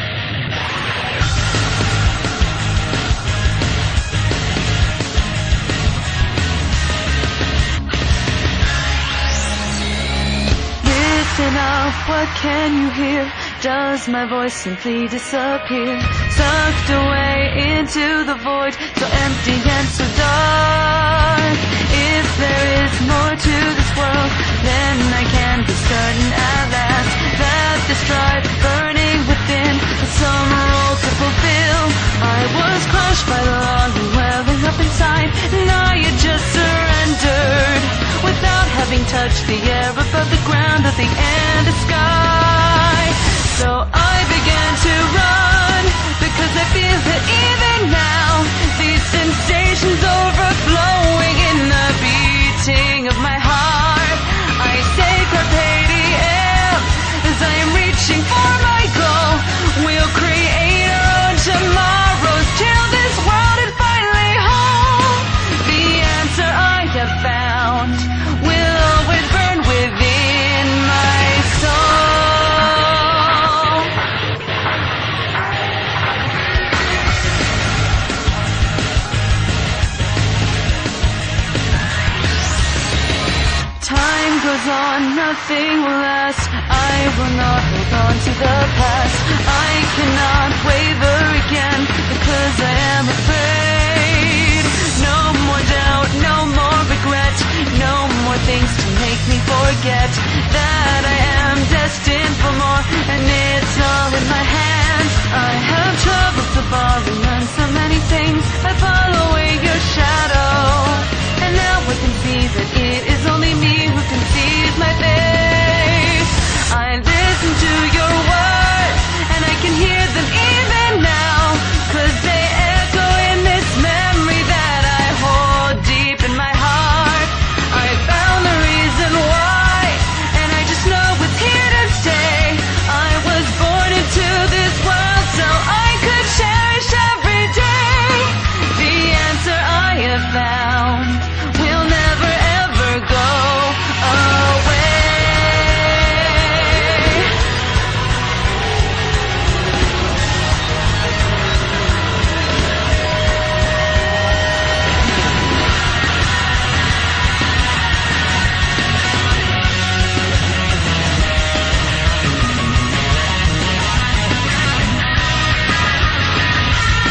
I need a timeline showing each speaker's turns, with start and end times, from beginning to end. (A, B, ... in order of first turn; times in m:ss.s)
0:10.8-1:13.9 A
1:23.8-2:27.3 A